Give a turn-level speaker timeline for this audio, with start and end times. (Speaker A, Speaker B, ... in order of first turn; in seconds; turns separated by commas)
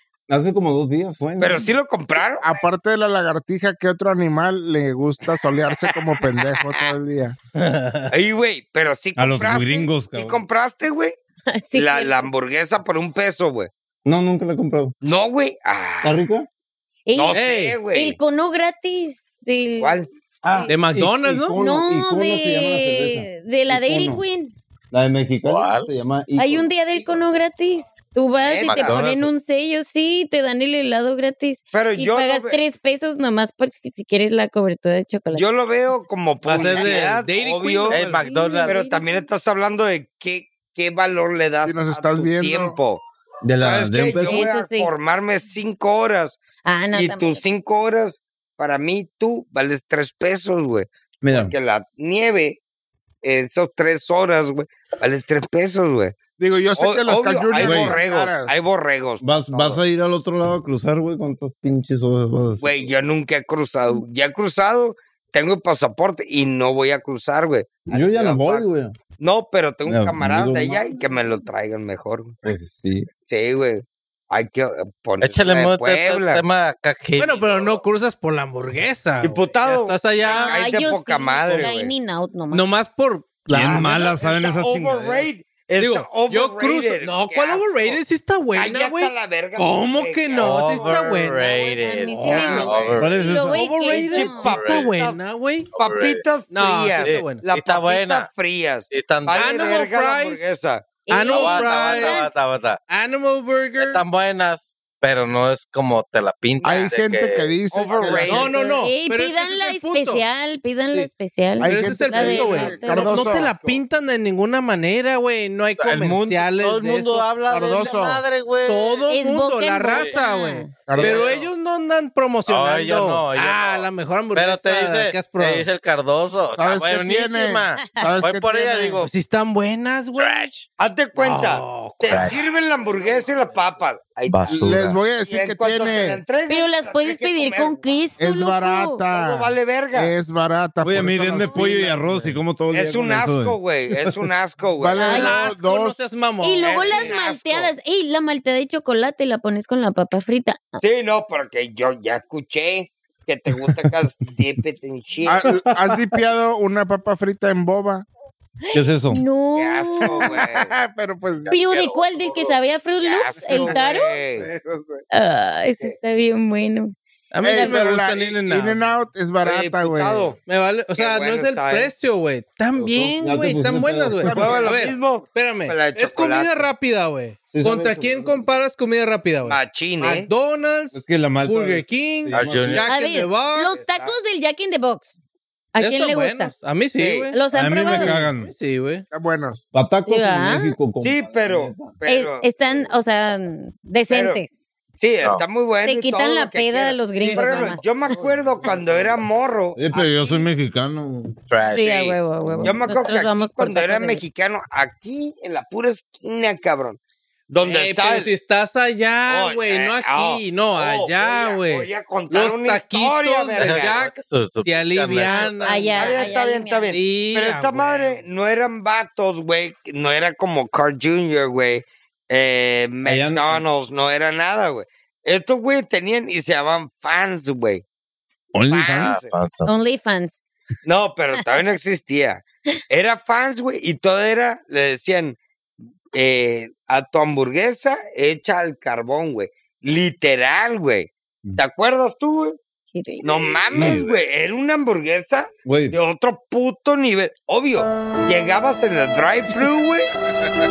Speaker A: 0.3-1.7, Speaker B: 1.4-2.5, Speaker C: 2.4-7.3, Speaker B: 5.7-6.9, Speaker D: 7.5-8.1, Speaker B: 8.1-11.2, Speaker A: 9.2-10.4, Speaker E: 11.5-12.3, Speaker B: 11.7-13.7, Speaker A: 14.0-14.9, Speaker B: 15.0-16.2, Speaker A: 16.0-16.5, Speaker E: 17.1-20.8, Speaker B: 17.1-18.2, Speaker D: 17.3-17.8, Speaker B: 19.8-20.1, Speaker A: 20.4-24.2, Speaker D: 20.7-21.6, Speaker E: 21.6-24.5, Speaker A: 24.9-26.7, Speaker F: 25.4-25.9, Speaker E: 26.4-35.5, Speaker B: 28.4-29.0, Speaker F: 28.6-29.3, Speaker B: 31.7-32.6, Speaker B: 35.3-38.0, Speaker D: 36.4-38.2, Speaker F: 36.6-37.0, Speaker F: 37.9-38.8, Speaker E: 38.1-39.2, Speaker B: 38.6-43.0, Speaker C: 41.6-42.8, Speaker A: 43.4-44.5, Speaker B: 43.6-46.4, Speaker E: 44.0-44.9, Speaker E: 46.6-47.4, Speaker B: 46.9-52.6, Speaker A: 51.2-51.5, Speaker B: 53.2-56.2, Speaker C: 56.4-58.5, Speaker B: 56.8-59.8, Speaker A: 57.6-58.0, Speaker A: 59.2-62.9, Speaker B: 62.6-68.7, Speaker A: 67.9-69.0, Speaker B: 69.2-72.3, Speaker A: 69.8-70.8, Speaker A: 72.4-73.1, Speaker B: 73.2-76.4, Speaker F: 75.2-77.7, Speaker D: 77.2-80.6, Speaker B: 79.2-81.9, Speaker E: 80.2-82.7, Speaker D: 82.5-84.2, Speaker A: 83.5-85.3, Speaker B: 83.6-88.0, Speaker D: 85.8-91.5, Speaker B: 88.5-91.0, Speaker F: 90.4-93.2, Speaker E: 91.4-94.6, Speaker D: 92.1-92.7, Speaker B: 92.2-93.0, Speaker A: 93.0-93.7, Speaker D: 93.5-95.7, Speaker B: 93.9-95.2, Speaker F: 94.4-94.9, Speaker F: 95.8-96.2, Speaker B: 95.8-100.8, Speaker D: 96.5-97.4, Speaker F: 97.0-98.3, Speaker F: 98.9-99.5, Speaker D: 99.3-100.5, Speaker E: 101.1-102.3, Speaker D: 101.1-102.2, Speaker F: 101.3-102.8, Speaker D: 102.9-104.0, Speaker F: 103.8-107.5, Speaker B: 106.6-106.9, Speaker C: 106.6-108.8, Speaker B: 107.7-108.6, Speaker D: 108.2-110.2, Speaker E: 108.7-113.4, Speaker C: 111.6-113.5, Speaker D: 111.6-117.3, Speaker F: 115.8-119.0, Speaker C: 117.4-118.2, Speaker D: 118.7-125.7, Speaker E: 119.1-120.8, Speaker F: 119.9-120.2, Speaker C: 120.8-121.3, Speaker F: 120.8-121.5, Speaker F: 122.5-129.1, Speaker C: 126.5-129.1, Speaker E: 127.8-128.1, Speaker D: 129.0-130.6, Speaker F: 130.2-130.5, Speaker B: 130.8-137.9, Speaker D: 131.2-133.4, Speaker F: 132.1-132.4, Speaker F: 134.3-135.0, Speaker C: 134.5-136.2, Speaker E: 136.5-139.0, Speaker C: 138.2-142.4, Speaker B: 139.1-140.1, Speaker A: 140.8-144.1, Speaker B: 142.7-145.4, Speaker C: 144.8-146.1, Speaker E: 145.0-145.5, Speaker D: 145.1-147.1, Speaker E: 146.4-150.8, Speaker B: 146.6-147.7, Speaker B: 150.8-155.5, Speaker C: 155.2-158.1, Speaker A: 155.4-156.2, Speaker E: 158.6-160.3, Speaker A: 158.7-159.2, Speaker B: 159.6-160.7, Speaker C: 160.0-161.5, Speaker F: 161.4-162.6, Speaker E: 161.5-164.2, Speaker B: 163.0-164.5, Speaker C: 163.4-165.0, Speaker E: 165.1-166.9, Speaker D: 167.3-168.9, Speaker C: 167.4-170.3, Speaker E: 167.4-167.9, Speaker B: 169.4-170.4, Speaker D: 170.4-183.8, Speaker B: 170.9-171.9, Speaker A: 172.8-174.5, Speaker C: 174.2-174.8, Speaker B: 174.3-176.7, Speaker A: 177.5-178.6, Speaker B: 179.4-180.3, Speaker A: 180.9-182.8, Speaker F: 182.3-182.9, Speaker E: 182.8-185.1, Speaker B: 183.7-184.2, Speaker E: 185.7-186.5, Speaker D: 185.8-189.0, Speaker B: 186.9-187.3, Speaker E: 187.3-188.3, Speaker A: 187.5-188.5, Speaker C: 189.1-189.6, Speaker A: 189.7-191.9, Speaker E: 190.0-190.8, Speaker B: 191.0-192.9, Speaker E: 192.0-194.5, Speaker B: 194.1-194.4, Speaker B: 195.0-200.5, Speaker E: 195.8-197.9, Speaker D: 197.2-197.8, Speaker A: 198.8-199.1, Speaker A: 199.7-201.3, Speaker F: 201.5-202.1, Speaker E: 201.7-204.2, Speaker B: 201.8-207.0, Speaker A: 202.4-202.8, Speaker B: 207.5-208.3, Speaker D: 207.6-216.2, Speaker B: 209.2-214.0, Speaker F: 213.6-215.8, Speaker E: 215.2-217.0, Speaker B: 215.9-227.8, Speaker D: 216.9-218.2, Speaker A: 223.0-223.6, Speaker A: 228.5-229.2, Speaker B: 228.7-229.3, Speaker F: 229.0-229.7, Speaker E: 229.7-230.4, Speaker B: 230.8-235.4, Speaker B: 236.1-242.6, Speaker E: 242.9-243.6, Speaker B: 243.2-250.1, Speaker A: 243.7-244.1, Speaker F: 243.8-244.1, Speaker A: 245.6-246.0